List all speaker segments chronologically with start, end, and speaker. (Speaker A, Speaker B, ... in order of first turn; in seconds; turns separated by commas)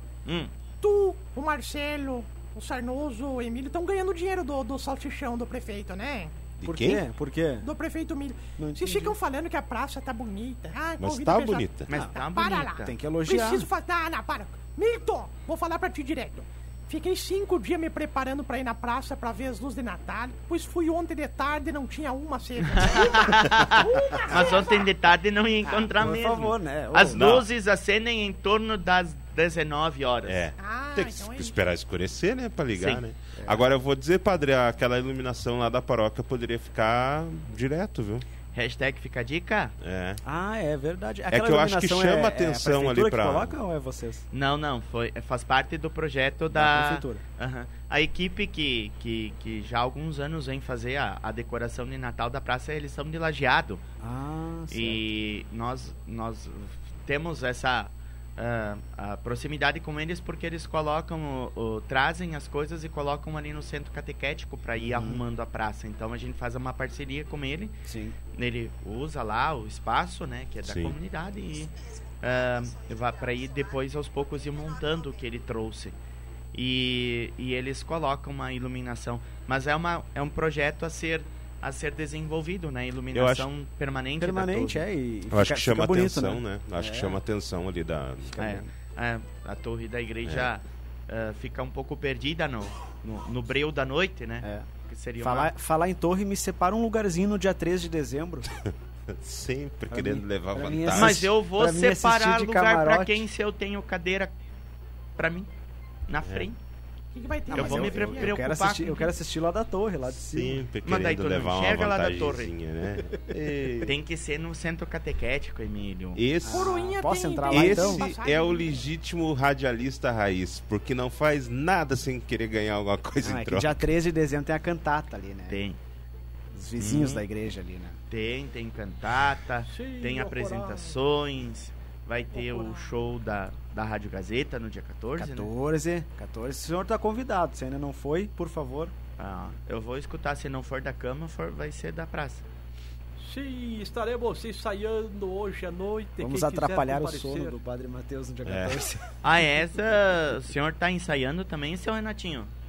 Speaker A: 0.2-0.5, Speaker B: 0.8-6.4, Speaker C: 6.6-7.0, Speaker D: 6.6-7.7, Speaker B: 7.6-24.9, Speaker D: 8.6-9.2, Speaker C: 11.0-11.9, Speaker A: 11.9-12.9, Speaker D: 12.8-13.7, Speaker A: 22.7-30.4, Speaker D: 25.6-27.4, Speaker C: 27.1-27.5, Speaker C: 30.3-38.2, Speaker B: 30.6-31.6, Speaker A: 32.8-33.0, Speaker D: 33.4-33.6, Speaker A: 38.5-39.7, Speaker C: 39.8-40.2, Speaker D: 40.2-44.2, Speaker C: 41.3-43.5, Speaker A: 44.3-53.8, Speaker D: 46.5-47.2, Speaker D: 54.0-55.0, Speaker A: 54.7-67.8, Speaker D: 64.8-65.2, Speaker D: 67.9-68.2, Speaker A: 68.3-76.0, Speaker C: 70.6-71.0, Speaker A: 76.5-84.8, Speaker C: 83.1-83.5, Speaker D: 84.2-87.2, Speaker C: 85.3-88.5, Speaker A: 88.3-95.5, Speaker D: 88.4-88.7, Speaker C: 90.2-90.5, Speaker D: 94.4-94.7, Speaker D: 95.2-98.5, Speaker C: 98.7-101.3, Speaker D: 99.9-103.3, Speaker A: 100.9-104.3, Speaker A: 105.2-105.5, Speaker A: 106.1-106.6, Speaker B: 107.1-108.4, Speaker D: 107.5-110.6, Speaker A: 107.5-109.1, Speaker C: 110.3-114.0, Speaker A: 110.8-112.5, Speaker A: 113.9-116.2, Speaker C: 116.2-116.8, Speaker D: 116.4-118.1, Speaker B: 116.5-118.9, Speaker C: 117.5-123.8, Speaker D: 123.2-125.6, Speaker A: 125.5-125.8, Speaker D: 126.5-128.0, Speaker A: 126.8-127.2, Speaker A: 128.1-135.5, Speaker E: 129.7-131.0, Speaker E: 132.3-133.0, Speaker D: 135.2-138.9, Speaker A: 139.2-142.4, Speaker E: 143.2-147.6, Speaker D: 146.2-149.0, Speaker C: 148.5-148.9, Speaker A: 149.2-152.5